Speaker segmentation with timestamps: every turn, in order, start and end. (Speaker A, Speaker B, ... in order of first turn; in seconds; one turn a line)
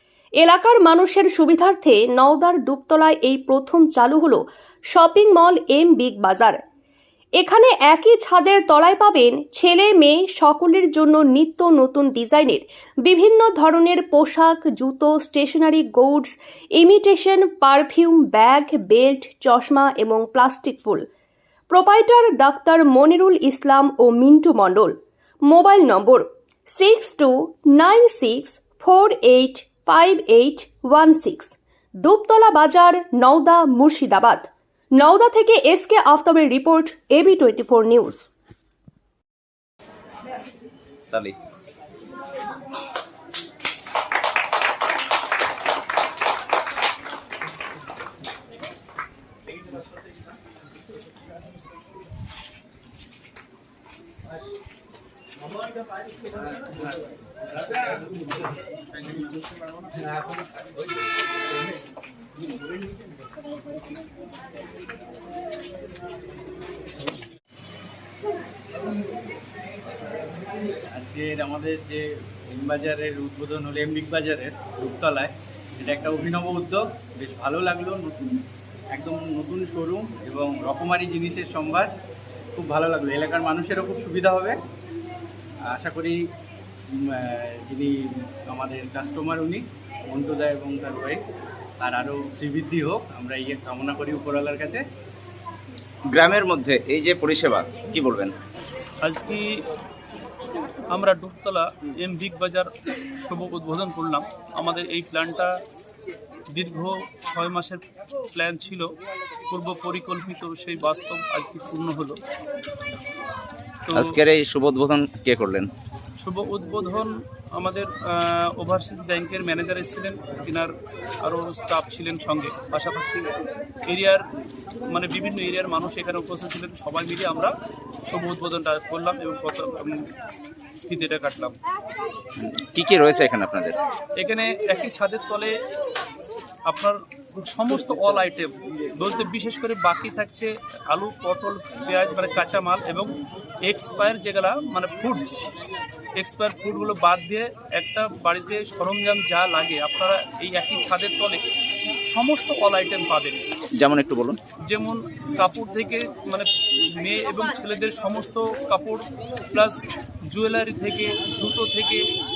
Speaker A: 0.4-4.4
Speaker A: 4.9-6.6
Speaker A: 7.4-21.0
Speaker A: 21.7-24.9
Speaker A: 25.5-31.5
Speaker A: 32.0-38.2
Speaker B: 70.9-78.3
Speaker B: 78.9-81.9
Speaker B: 82.6-84.6
Speaker B: 85.7-86.2
Speaker B: 87.0-88.0
Speaker B: 88.5-91.2
Speaker B: 91.8-94.8
Speaker C: 96.1-98.3
Speaker D: 99.0-99.6
Speaker D: 100.9-102.7
Speaker D: 103.2-105.5
Speaker D: 106.5-107.8
Speaker D: 108.3-108.9
Speaker D: 109.5-112.2
Speaker D: 113.9-114.1
Speaker C: 113.9-115.7
Speaker D: 116.2-120.7
Speaker D: 121.2-123.3
Speaker D: 123.9-124.2
Speaker D: 124.9-127.5
Speaker D: 128.1-130.1
Speaker D: 130.9-131.6
Speaker C: 132.4-133.8
Speaker D: 134.2-135.6
Speaker D: 136.7-143.1
Speaker D: 143.7-145.2
Speaker D: 146.2-151.4
Speaker D: 152.1-153.4
Speaker C: 153.8-154.4
Speaker D: 154.7-162.1